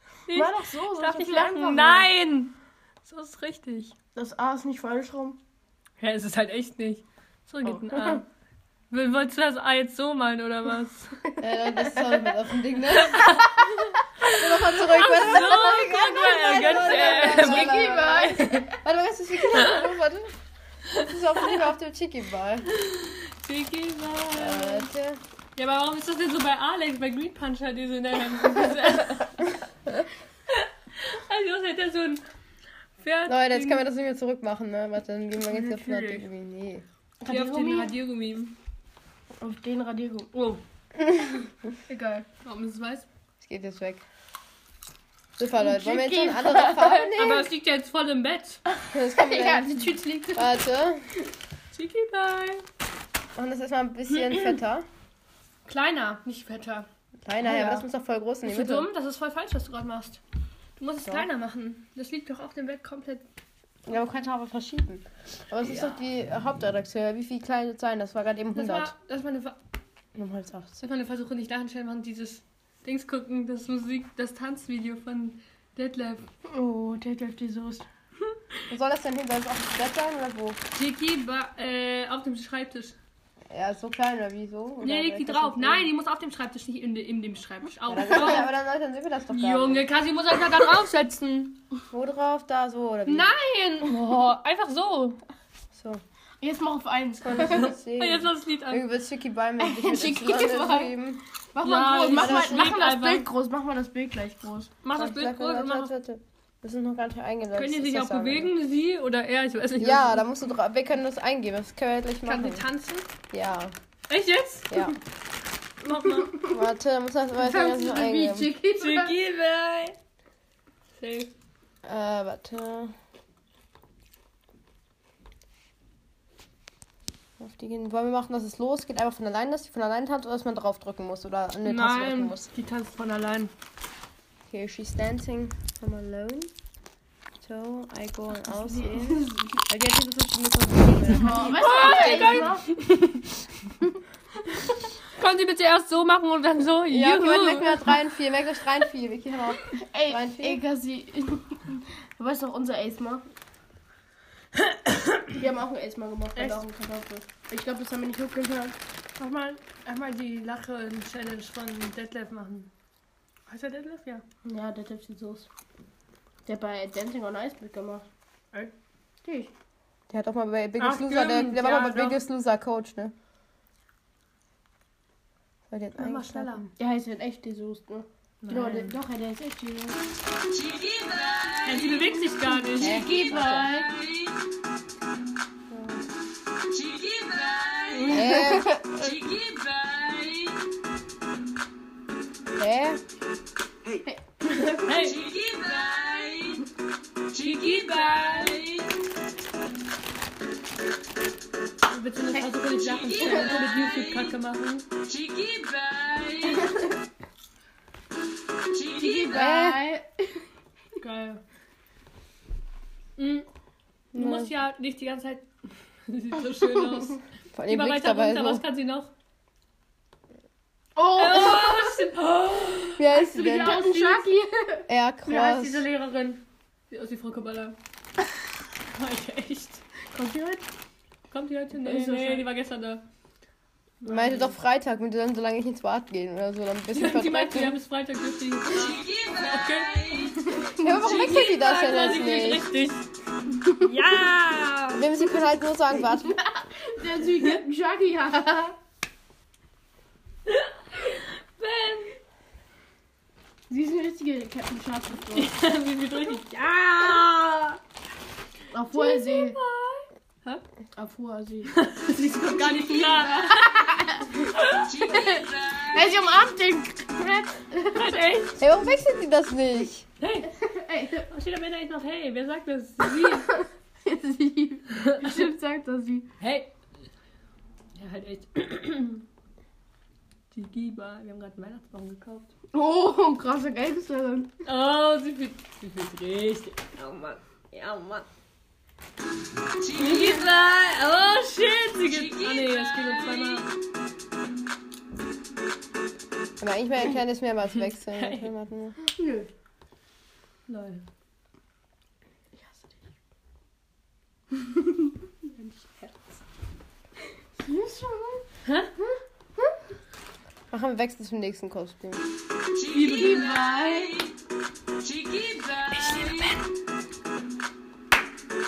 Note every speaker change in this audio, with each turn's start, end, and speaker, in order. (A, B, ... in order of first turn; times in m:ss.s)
0:00.3-0:02.5 A
0:00.3-0:02.1 B
0:03.0-0:03.9 A
0:04.1-0:05.4 B
0:06.0-0:08.2 A
0:07.9-0:08.2 B
0:08.9-0:11.2 A
0:11.3-0:12.3 B
0:11.4-0:13.4 C
0:13.1-0:13.4 A
0:14.2-0:18.7 A
0:14.2-0:20.3 C
0:16.7-0:18.8 B
0:19.5-0:19.8 A
0:21.0-0:22.7 C
0:21.0-0:21.6 A
0:22.7-0:24.9 A
0:24.3-0:25.2 C
0:25.6-0:29.5 A
0:30.5-0:32.2 A
0:33.0-0:33.8 A
0:33.3-0:36.8 C
0:35.4-0:36.2 A
0:37.2-0:37.9 B
0:37.3-0:38.6 A
0:39.4-0:40.5 B
0:41.9-0:42.2 B
0:42.2-0:43.0 A
0:43.4-0:44.0 C
0:45.4-0:47.5 C
0:45.5-0:47.0 B
0:46.7-0:48.6 A
0:48.8-0:50.6 B
0:48.9-0:49.7 C
0:50.4-0:51.1 C
0:51.7-0:52.6 A
0:53.4-0:54.8 C
0:55.6-0:56.9 A
0:57.2-0:58.9 C
0:57.4-0:57.8 A
0:58.4-1:00.2 A
1:00.8-1:03.2 A
1:03.8-1:08.9 C
1:05.6-1:06.0 A
1:08.5-1:09.6 A
1:10.1-1:10.8 C
1:10.8-1:16.3 A
1:16.5-1:17.8 B
1:18.7-1:20.6 C
1:20.8-1:23.0 A
1:23.5-1:25.9 C
1:24.8-1:28.5 A
1:27.9-1:29.8 C
1:29.3-1:31.6 A
1:31.9-1:33.3 C
1:33.1-1:35.2 A
1:35.7-1:36.0 C
1:36.4-1:37.7 B
1:37.2-1:41.2 C
1:37.3-1:38.9 A
1:39.6-1:40.9 B
1:41.5-1:44.7 B
1:41.6-1:43.3 A
1:42.0-1:42.8 C
1:44.8-1:45.9 A
1:45.0-1:48.5 C
1:47.5-1:50.3 A
1:49.8-1:52.6 C
1:52.2-1:53.1 A
1:53.3-1:53.7 C
1:54.1-1:55.0 A
1:55.8-1:56.4 A
1:56.5-1:58.5 C
1:57.4-1:59.1 B
1:58.7-2:00.0 A
2:01.0-2:01.3 A
2:01.8-2:02.9 C
2:07.4-2:12.4 C
2:11.6-2:13.5 A
2:14.5-2:16.5 C
2:17.4-2:22.2 C
2:19.1-2:19.4 B
2:21.1-2:22.6 B
2:21.4-2:23.3 A
2:25.1-2:28.0 A
2:26.9-2:30.6 C
2:29.7-2:33.2 B
2:34.6-2:35.3 A
2:35.4-2:38.8 B
2:39.2-2:42.7 A
2:43.5-2:44.2 A
2:44.4-2:45.5 B
2:46.4-2:48.0 B
2:49.2-2:49.5 B
2:50.1-2:53.1 C
2:50.8-2:52.2 A
2:55.7-2:56.7 C
2:56.0-2:56.6 A
2:56.8-3:00.0 B
2:58.4-2:58.9 A
3:01.6-3:03.1 A
3:02.5-3:03.9 B
3:02.8-3:03.6 C
3:05.7-3:06.0 C
3:07.9-3:08.8 B
3:08.1-3:09.2 C
3:12.6-3:13.0 C
3:14.0-3:15.0 B
3:14.6-3:15.5 A
3:17.3-3:18.8 A
3:21.9-3:24.9 A
3:26.3-3:26.6 A
3:28.9-3:30.4 B
3:29.3-3:29.8 C
3:31.0-3:31.4 A
3:33.2-3:33.5 A
3:34.1-3:34.5 C
3:34.1-3:35.4 A
3:36.1-3:39.1 A
3:37.5-3:38.6 C
3:41.0-3:42.0 B
3:41.1-3:44.3 A
3:43.0-3:43.8 C
3:43.4-3:44.9 B
3:44.9-3:45.8 C
3:45.2-3:47.8 A
3:48.9-3:49.8 A
3:50.1-3:50.6 B
3:51.3-3:53.0 A
3:51.8-3:52.5 B
3:54.0-3:54.5 A
3:54.0-3:57.8 C
3:56.9-4:03.0 A
4:00.5-4:00.9 B
4:00.8-4:02.6 C
4:03.6-4:03.9 B
4:03.7-4:05.0 A
4:04.9-4:06.4 C
4:06.2-4:08.7 B
4:10.4-4:12.2 A
4:13.7-4:15.5 B
4:15.3-4:17.8 A
4:18.7-4:19.6 B
4:18.9-4:20.6 A
4:21.0-4:21.7 B
4:21.7-4:23.7 A
4:22.4-4:24.5 B
4:24.5-4:25.3 A
4:25.0-4:28.2 B
4:27.9-4:28.7 A
4:28.6-4:30.0 C
4:30.2-4:30.5 A
4:30.6-4:31.3 B
4:31.3-4:33.6 A
4:33.2-4:36.3 B
4:35.0-4:35.4 A
4:36.4-4:36.7 A
4:38.0-4:39.2 A
4:40.5-4:42.5 A
4:42.7-4:44.5 B
4:44.6-4:48.2 A
4:49.9-4:53.7 A
4:56.6-4:59.0 C
4:58.1-4:58.5 A
4:59.0-4:59.5 B
5:00.7-5:01.0 A
5:04.7-5:05.1 B
5:05.6-5:06.1 A
5:07.6-5:08.4 B
5:08.6-5:08.9 A
5:09.0-5:09.8 B
5:10.7-5:12.2 C
5:12.9-5:14.0 A
5:12.9-5:14.2 B
5:15.9-5:16.6 A